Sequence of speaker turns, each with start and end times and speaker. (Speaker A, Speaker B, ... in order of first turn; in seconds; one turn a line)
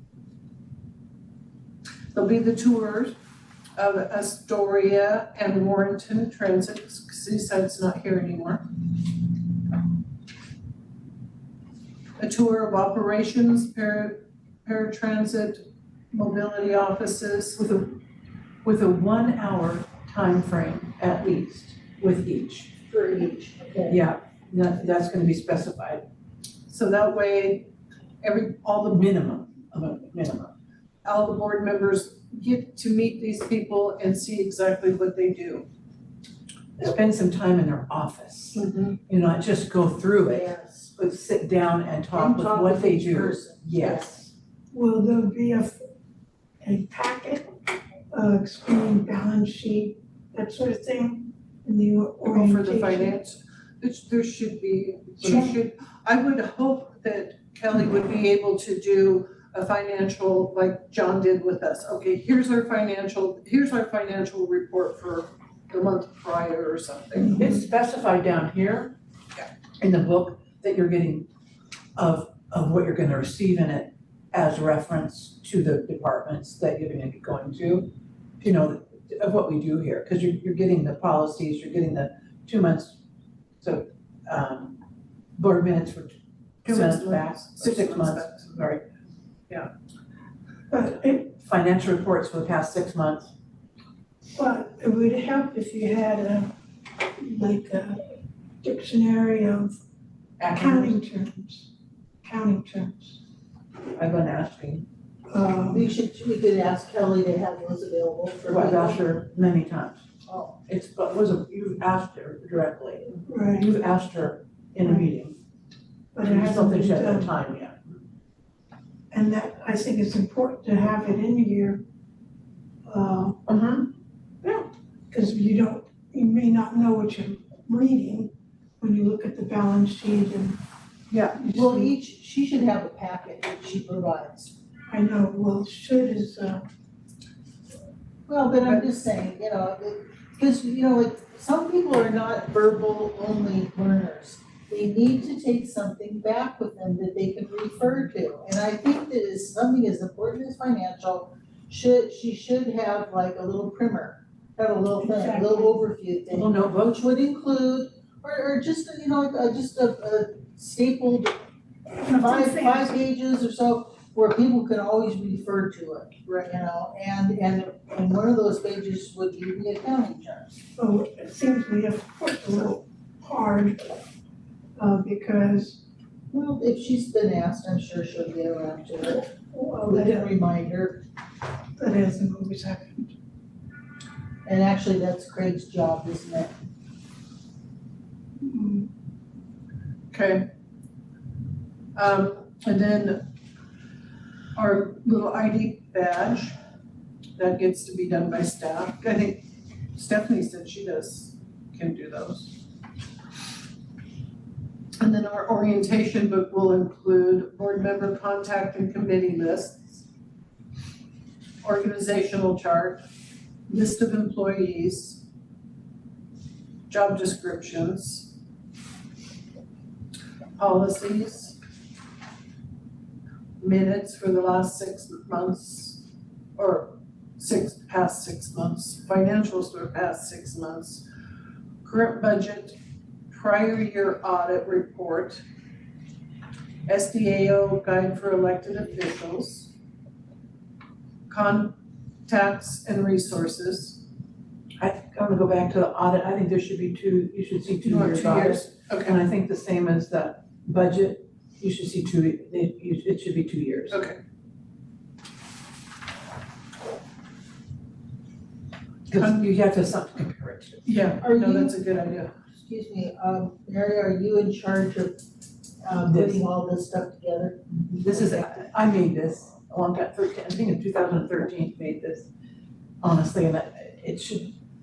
Speaker A: 2.1-3.1
Speaker A: 3.8-8.7
Speaker A: 12.2-17.6
Speaker B: 17.6-18.0
Speaker B: 18.6-22.8
Speaker C: 22.9-24.0
Speaker B: 23.9-26.0
Speaker A: 26.7-27.7
Speaker A: 28.2-29.1
Speaker B: 28.9-30.5
Speaker A: 31.1-35.7
Speaker B: 36.8-44.3
Speaker A: 38.5-39.0
Speaker C: 40.2-41.0
Speaker C: 42.1-44.1
Speaker D: 44.7-45.8
Speaker D: 46.6-47.5
Speaker D: 48.1-53.2
Speaker A: 52.3-67.5
Speaker D: 55.2-55.5
Speaker B: 67.3-69.0
Speaker B: 69.8-71.3
Speaker B: 72.0-83.0
Speaker B: 83.6-84.8
Speaker B: 85.4-88.8
Speaker A: 86.7-88.6
Speaker D: 90.7-91.3
Speaker B: 91.3-93.3
Speaker D: 94.4-96.5
Speaker D: 97.2-98.0
Speaker D: 98.6-99.8
Speaker B: 100.4-101.0
Speaker D: 100.4-101.7
Speaker D: 102.2-103.2
Speaker B: 104.0-104.9
Speaker D: 105.3-105.8
Speaker C: 105.7-109.1
Speaker B: 108.5-110.0
Speaker C: 110.3-110.6
Speaker B: 110.7-115.4
Speaker D: 113.3-113.8
Speaker D: 114.8-115.1
Speaker D: 116.1-117.3
Speaker B: 116.2-118.0
Speaker D: 119.1-121.8
Speaker D: 122.9-123.4
Speaker B: 123.5-123.9
Speaker D: 125.1-130.6
Speaker B: 131.1-131.4
Speaker D: 131.3-131.9
Speaker C: 131.5-134.5
Speaker D: 134.9-136.6
Speaker C: 138.3-161.3
Speaker D: 155.0-155.8
Speaker B: 156.3-157.1
Speaker D: 162.0-162.9
Speaker C: 162.0-170.6
Speaker D: 170.8-173.9
Speaker D: 174.8-175.8
Speaker C: 176.3-179.3
Speaker D: 179.4-180.3
Speaker C: 179.9-181.0
Speaker D: 181.8-183.2
Speaker C: 184.5-186.6
Speaker D: 188.4-188.9
Speaker A: 190.1-190.5
Speaker A: 192.0-193.3
Speaker A: 194.6-196.6
Speaker A: 197.4-199.4
Speaker A: 199.9-202.6
Speaker A: 205.0-210.0
Speaker A: 211.6-213.0
Speaker A: 213.7-215.2
Speaker A: 216.9-218.3
Speaker A: 220.6-221.6
Speaker A: 223.6-226.1
Speaker A: 226.6-231.1
Speaker A: 231.8-232.8
Speaker A: 233.3-235.4
Speaker A: 236.9-239.7
Speaker A: 241.3-244.0
Speaker B: 244.8-254.0
Speaker A: 247.8-249.2
Speaker A: 253.9-254.2
Speaker B: 259.1-260.9
Speaker A: 259.1-259.4
Speaker A: 260.9-262.3
Speaker C: 261.2-261.8
Speaker C: 262.6-265.2
Speaker C: 265.8-268.5
Speaker B: 266.1-266.5
Speaker B: 267.7-272.3
Speaker B: 273.0-274.6